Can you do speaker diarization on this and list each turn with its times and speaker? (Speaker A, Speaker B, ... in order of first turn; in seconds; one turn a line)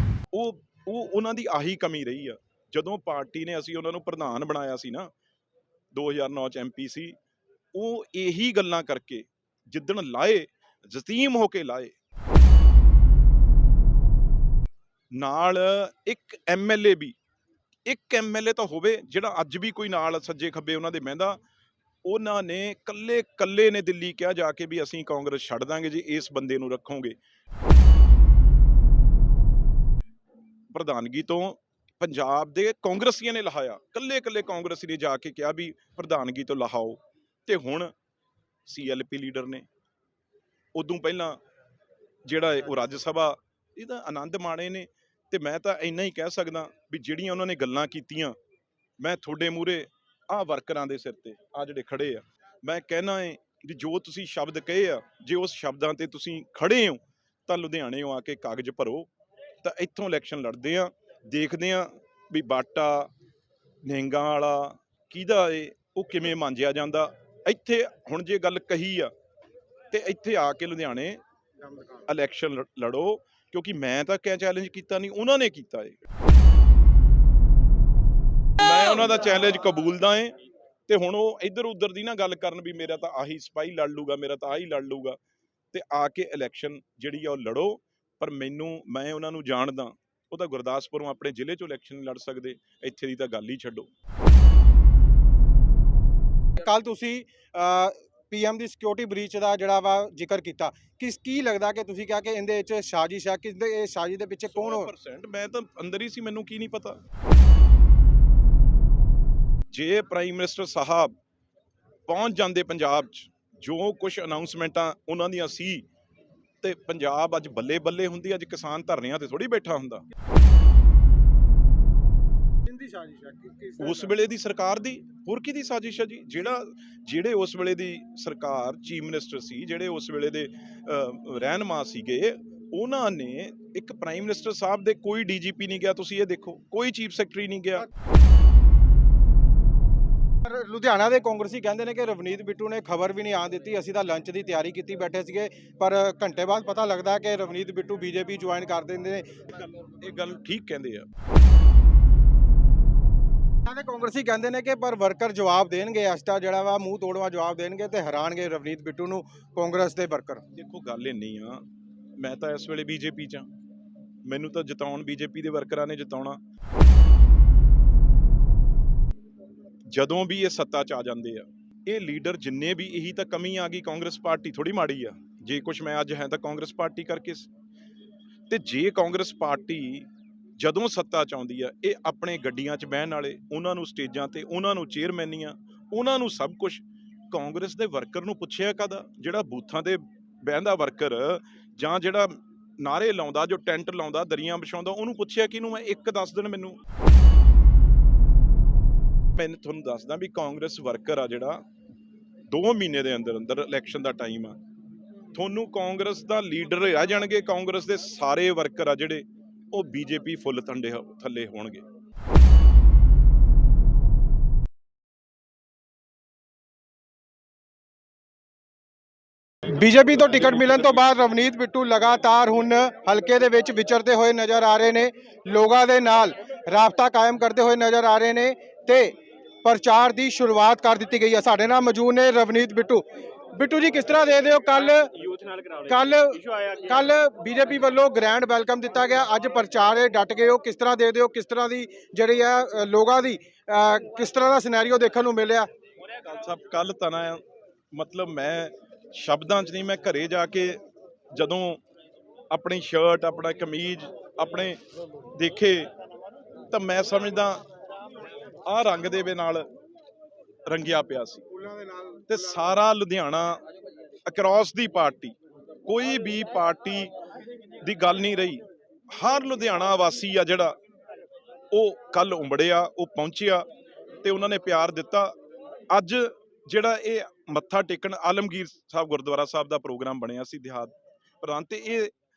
Speaker A: 0.3-5.1
Speaker A: 5.9-7.2
Speaker A: 7.7-11.9
Speaker A: 15.1-17.1
Speaker A: 17.9-21.4
Speaker A: 22.0-27.1
Speaker A: 30.7-37.9
Speaker A: 38.6-39.6
Speaker A: 40.7-41.4
Speaker A: 42.2-48.4
Speaker A: 49.0-59.1
Speaker A: 59.6-63.1
Speaker A: 63.8-69.1
Speaker A: 69.9-71.2
Speaker B: 71.6-72.0
Speaker A: 72.1-76.0
Speaker A: 78.6-80.3
Speaker A: 80.9-85.2
Speaker A: 85.7-93.9
Speaker B: 96.6-104.9
Speaker A: 104.5-107.0
Speaker A: 109.7-111.1
Speaker A: 112.1-115.8
Speaker A: 116.6-120.0
Speaker B: 122.7-124.1
Speaker A: 123.8-137.9
Speaker B: 140.4-149.4
Speaker A: 149.8-151.1
Speaker B: 153.7-160.4
Speaker A: 160.5-161.6
Speaker A: 162.2-163.5
Speaker A: 164.2-166.4
Speaker A: 169.9-177.5
Speaker A: 178.5-196.8
Speaker A: 199.3-201.6
Speaker A: 202.5-204.6
Speaker A: 205.3-211.8
Speaker B: 219.7-245.7
Speaker A: 246.3-247.4
Speaker A: 247.9-250.8
Speaker A: 251.3-251.8
Speaker A: 252.5-254.8
Speaker A: 255.3-255.9
Speaker A: 256.7-257.6
Speaker A: 258.6-259.7
Speaker A: 260.6-261.4
Speaker B: 261.6-262.2
Speaker A: 262.3-263.6
Speaker A: 264.2-267.1
Speaker A: 267.8-270.7
Speaker A: 271.7-273.6
Speaker A: 274.2-275.3
Speaker A: 275.9-282.1